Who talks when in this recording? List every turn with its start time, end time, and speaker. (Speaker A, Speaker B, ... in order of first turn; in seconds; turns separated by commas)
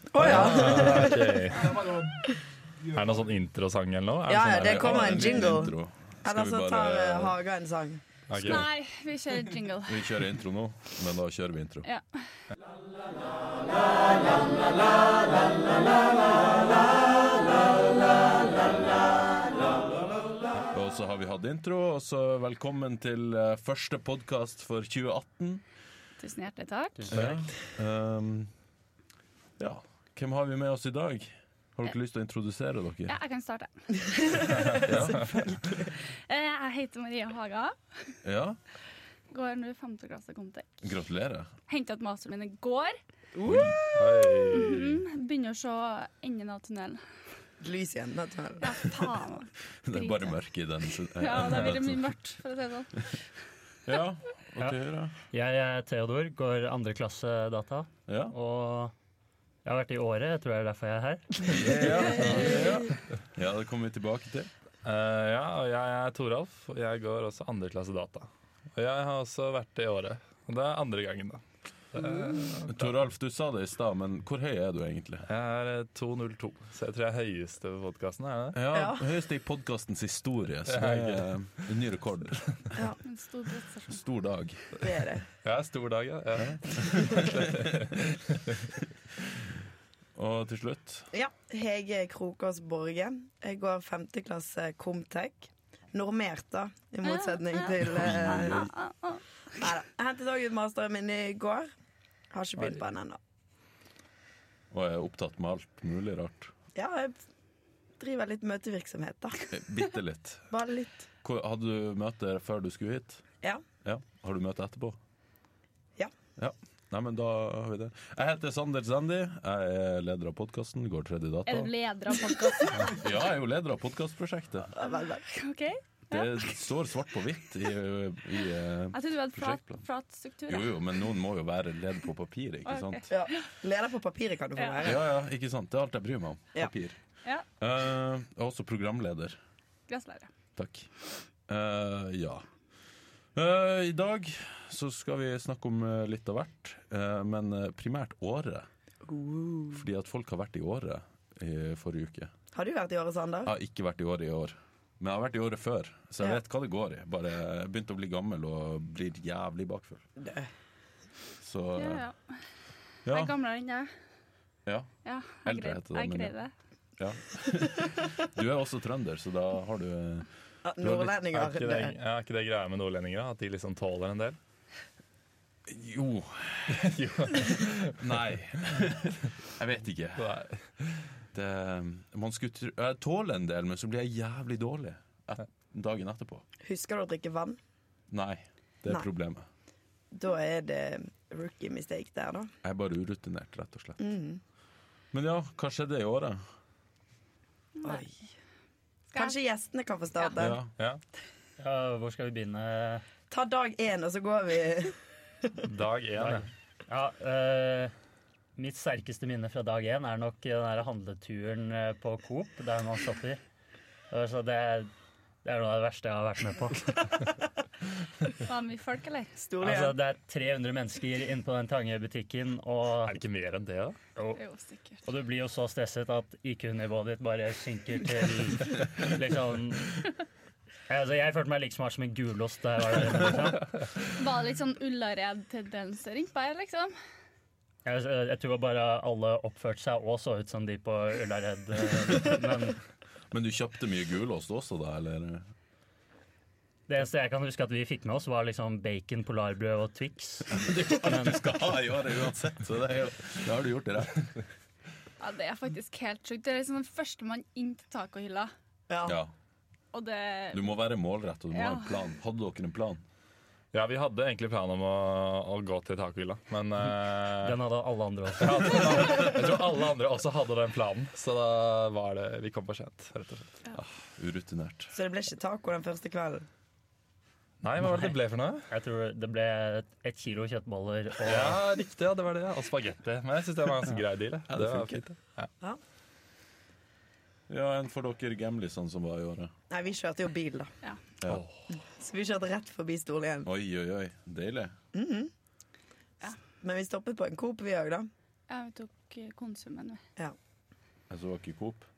Speaker A: 0.1-1.5, Speaker B: 0.1-1.9, Speaker B: 2.9-5.3, Speaker A: 4.3-8.0, Speaker C: 4.6-7.3, Speaker B: 8.3-8.7, Speaker D: 8.4-10.2, Speaker C: 9.8-11.9, Speaker D: 11.8-12.2, Speaker C: 20.6-25.6, Speaker D: 26.2-27.3, Speaker E: 27.0-27.3, Speaker C: 27.1-28.5, Speaker C: 29.6-33.1, Speaker D: 33.0-34.6, Speaker A: 34.3-35.7, Speaker B: 34.5-35.0, Speaker C: 34.8-35.9, Speaker D: 35.8-38.2, Speaker C: 38.2-38.6, Speaker D: 39.3-40.9, Speaker C: 40.8-41.5, Speaker D: 41.7-42.9, Speaker A: 43.3-43.7, Speaker C: 43.4-43.9, Speaker B: 43.9-45.0, Speaker D: 44.5-47.0, Speaker A: 47.6-48.7, Speaker D: 48.6-50.4, Speaker C: 49.8-52.1, Speaker D: 51.1-53.2, Speaker C: 53.9-55.1, Speaker E: 55.3-58.9, Speaker C: 58.1-58.3, Speaker E: 59.6-61.9, Speaker C: 61.4-64.5, Speaker D: 62.2-62.7, Speaker B: 62.2-62.6, Speaker B: 64.8-71.4, Speaker B: 71.9-72.9, Speaker C: 72.7-75.3, Speaker B: 75.2-78.6, Speaker C: 78.5-82.7, Speaker A: 78.7-79.1, Speaker B: 80.7-81.2, Speaker D: 83.0-84.0, Speaker C: 83.9-84.6, Speaker A: 84.8-85.2, Speaker B: 85.4-88.3, Speaker C: 86.4-88.0, Speaker C: 90.1-91.1, Speaker A: 91.1-98.7, Speaker D: 97.0-99.7, Speaker C: 97.8-98.7, Speaker A: 99.6-101.7, Speaker A: 102.3-103.2, Speaker C: 104.7-106.5, Speaker A: 106.7-107.2, Speaker A: 108.0-109.5, Speaker C: 109.5-110.5, Speaker A: 110.5-111.1, Speaker C: 111.2-113.2, Speaker C: 113.8-115.0, Speaker C: 116.4-121.7, Speaker D: 121.5-123.0, Speaker C: 122.8-124.7, Speaker A: 124.7-125.2, Speaker D: 125.2-126.7, Speaker C: 126.1-129.8, Speaker D: 128.9-131.1, Speaker C: 130.5-133.1, Speaker D: 132.7-133.4, Speaker A: 133.1-135.1, Speaker D: 134.6-134.9, Speaker C: 134.8-136.9, Speaker C: 137.6-139.4, Speaker D: 139.9-140.3, Speaker C: 140.6-140.9, Speaker C: 141.5-142.4, Speaker C: 143.3-148.7, Speaker A: 149.0-149.8, Speaker C: 149.7-152.3, Speaker A: 152.5-153.5, Speaker C: 153.4-160.0, Speaker A: 160.2-160.5, Speaker C: 161.4-162.0, Speaker D: 161.8-162.4, Speaker C: 163.1-163.3, Speaker D: 163.1-163.9, Speaker D: 165.0-166.5, Speaker C: 165.4-166.3, Speaker C: 167.0-170.3, Speaker A: 170.6-171.9, Speaker C: 170.8-171.1, Speaker B: 171.2-174.4, Speaker C: 175.7-180.4, Speaker B: 176.7-178.0, Speaker B: 180.2-181.0, Speaker C: 181.3-186.4, Speaker A: 186.6-187.6, Speaker C: 188.1-189.4, Speaker A: 190.1-192.5, Speaker C: 192.6-194.0, Speaker A: 194.0-194.4, Speaker C: 195.1-196.4, Speaker D: 197.8-198.1, Speaker A: 197.8-198.1, Speaker D: 199.1-199.3, Speaker A: 199.1-200.6, Speaker C: 200.3-200.7, Speaker E: 201.6-203.0, Speaker A: 203.3-205.5, Speaker B: 205.6-206.4, Speaker E: 206.2-207.9, Speaker E: 208.6-213.4, Speaker E: 214.1-214.9, Speaker E: 215.4-217.2, Speaker D: 218.3-219.4, Speaker A: 219.4-219.9, Speaker E: 219.6-223.2, Speaker B: 223.1-224.0, Speaker D: 224.3-225.1, Speaker E: 225.1-230.0, Speaker E: 230.9-233.8, Speaker D: 234.0-236.9, Speaker E: 237.8-242.8, Speaker C: 243.3-245.4, Speaker E: 246.9-251.4, Speaker C: 250.5-254.4, Speaker D: 255.2-258.5, Speaker A: 258.9-259.2, Speaker C: 259.1-259.3, Speaker D: 259.9-260.7, Speaker C: 260.5-263.0, Speaker D: 261.5-262.1, Speaker B: 263.7-267.6, Speaker E: 267.4-269.2, Speaker B: 268.4-273.6, Speaker C: 273.8-274.9, Speaker A: 274.9-276.4, Speaker B: 277.6-278.7, Speaker E: 278.7-281.6, Speaker B: 281.2-285.5, Speaker C: 284.5-285.0, Speaker C: 287.5-289.5, Speaker A: 289.7-290.7, Speaker B: 291.3-291.6, Speaker A: 291.7-293.5, Speaker C: 293.4-294.7, Speaker A: 294.9-295.3, Speaker A: 296.2-298.1, Speaker D: 298.5-300.0, Speaker C: 301.1-301.9